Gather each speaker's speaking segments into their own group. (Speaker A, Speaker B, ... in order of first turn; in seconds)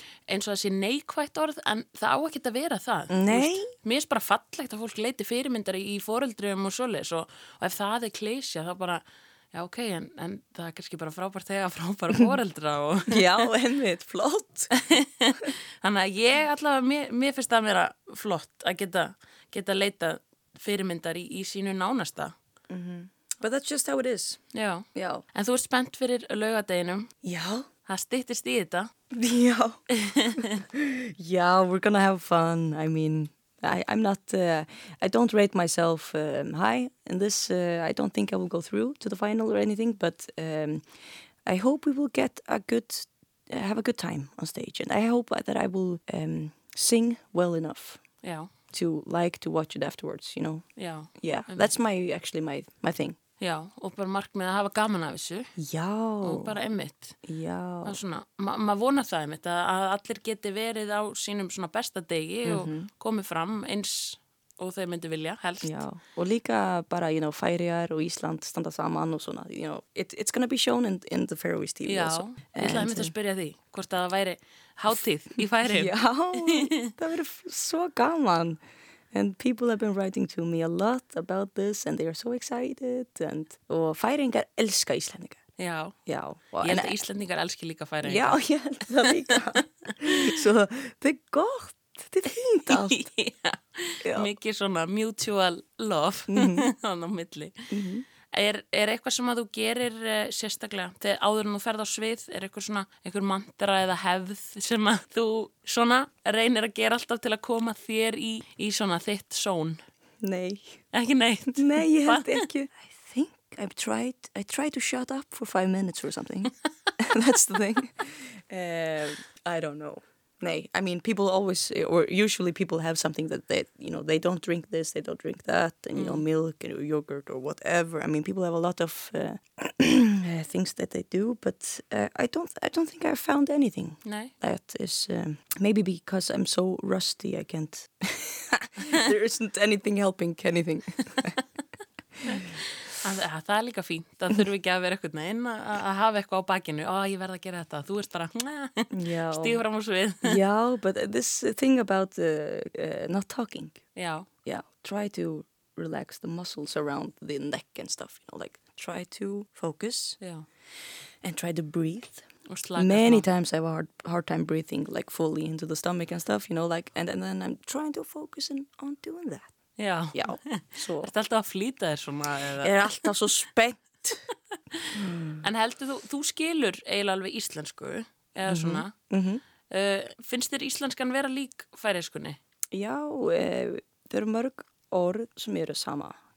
Speaker A: 0.3-9.0, 9.5-13.5, 14.7-22.3, 24.5-27.1, 27.8-28.9, 29.9-30.5, 48.2-48.5, 50.8-51.7, 53.4-55.5, 56.2-57.2, 57.8-65.8, 71.8-76.9, 85.6-86.0, 86.6-88.3, 89.3-90.1, 92.7-97.7, 98.3-109.8, 110.9-112.4, 126.0-126.2, 134.0-134.3, 142.3-150.4, 153.9-154.3, 160.2-160.4, 162.5-163.3, 169.8-173.1, 175.4-178.9, 179.7-182.4
Speaker B: 3.1-3.7, 13.1-14.7, 22.7-24.4, 24.9-25.2, 27.2-27.6, 29.1-40.8, 41.4-48.0, 48.7-50.6, 51.2-53.2, 55.6-56.6, 57.2-58.0, 62.4-62.9, 65.6-73.1, 75.6-78.6, 79.1-85.4, 86.0-87.0, 88.0-93.0, 94.0-94.3, 96.3-96.7, 97.7-98.0, 110.2-110.8, 111.5-141.3, 148.9-149.6, 150.2-153.8, 154.4-160.2, 161.2-169.5, 170.1-171.1, 172.6-174.2, 174.9-175.4, 178.4-179.4, 182.7-186.2